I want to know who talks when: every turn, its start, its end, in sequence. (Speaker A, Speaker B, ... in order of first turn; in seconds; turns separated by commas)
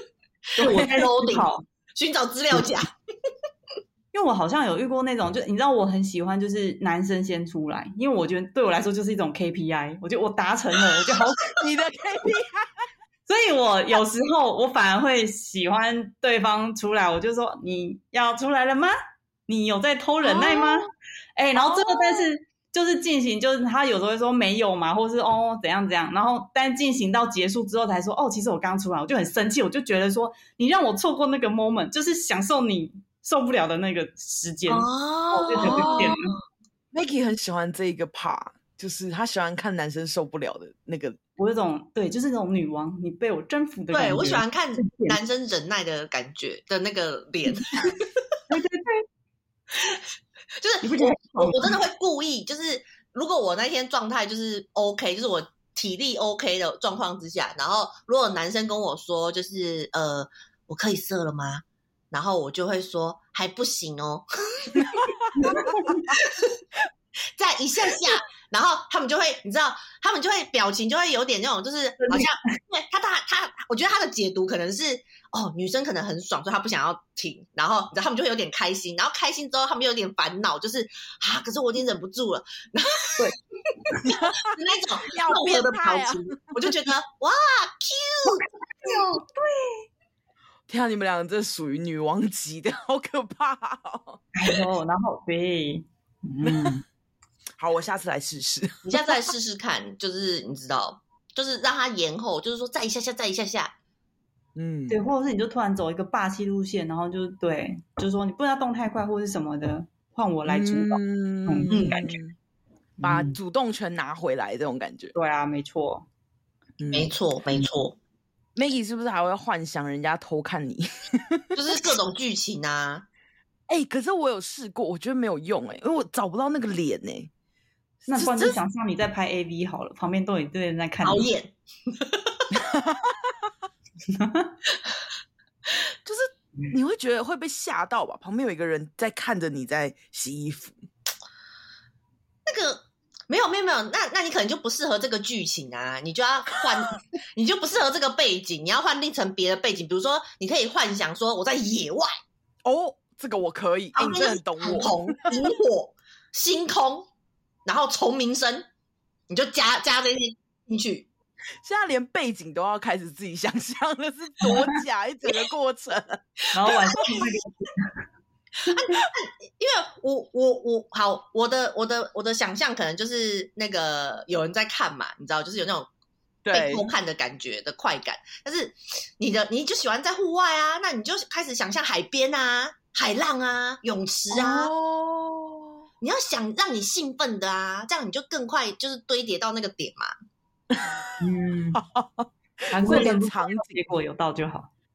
Speaker A: 0.5-2.9, Speaker B: 0.6-1.6, Speaker B: 4.1-11.6, Speaker C: 11.5-12.7, Speaker B: 13.3-18.9, Speaker B: 19.5-36.3, Speaker C: 20.2-20.9, Speaker C: 21.6-22.3, Speaker A: 34.7-36.3, Speaker C: 35.5-36.2, Speaker C: 36.9-41.2, Speaker B: 41.4-45.2, Speaker A: 43.9-48.1, Speaker B: 48.5-49.0, Speaker A: 50.6-66.5, Speaker B: 50.8-51.8, Speaker B: 65.4-66.0, Speaker A: 67.4-83.3, Speaker A: 83.9-89.2, Speaker C: 84.1-84.5, Speaker C: 85.1-86.9, Speaker B: 88.8-89.8, Speaker C: 90.7-94.2, Speaker B: 94.3-96.8, Speaker C: 96.4-96.8, Speaker C: 97.6-99.2, Speaker A: 98.8-103.7, Speaker C: 104.5-105.0, Speaker B: 104.9-112.2, Speaker C: 110.4-112.3, Speaker A: 111.7-112.0, Speaker B: 113.0-113.4, Speaker C: 113.0-115.1, Speaker B: 115.1-116.1, Speaker C: 116.8-117.1, Speaker A: 116.9-118.0, Speaker C: 118.5-121.8, Speaker A: 121.5-123.0, Speaker C: 123.7-127.3, Speaker C: 128.1-128.6, Speaker B: 128.1-131.2, Speaker A: 131.0-132.5, Speaker C: 132.5-133.5, Speaker B: 134.1-134.5, Speaker C: 136.1-140.8, Speaker A: 142.4-152.1, Speaker C: 152.6-155.3, Speaker A: 153.9-157.1, Speaker A: 157.6-158.7, Speaker A: 159.3-161.1, Speaker C: 161.6-166.2, Speaker B: 164.4-164.7, Speaker B: 166.5-167.9, Speaker A: 166.6-167.2, Speaker A: 168.6-175.9, Speaker C: 176.4-176.9, Speaker A: 176.5-184.7, Speaker C: 184.3-185.8, Speaker A: 186.0-190.1, Speaker C: 190.7-191.1, Speaker B: 191.2-191.8, Speaker C: 191.7-193.9, Speaker B: 192.7-194.7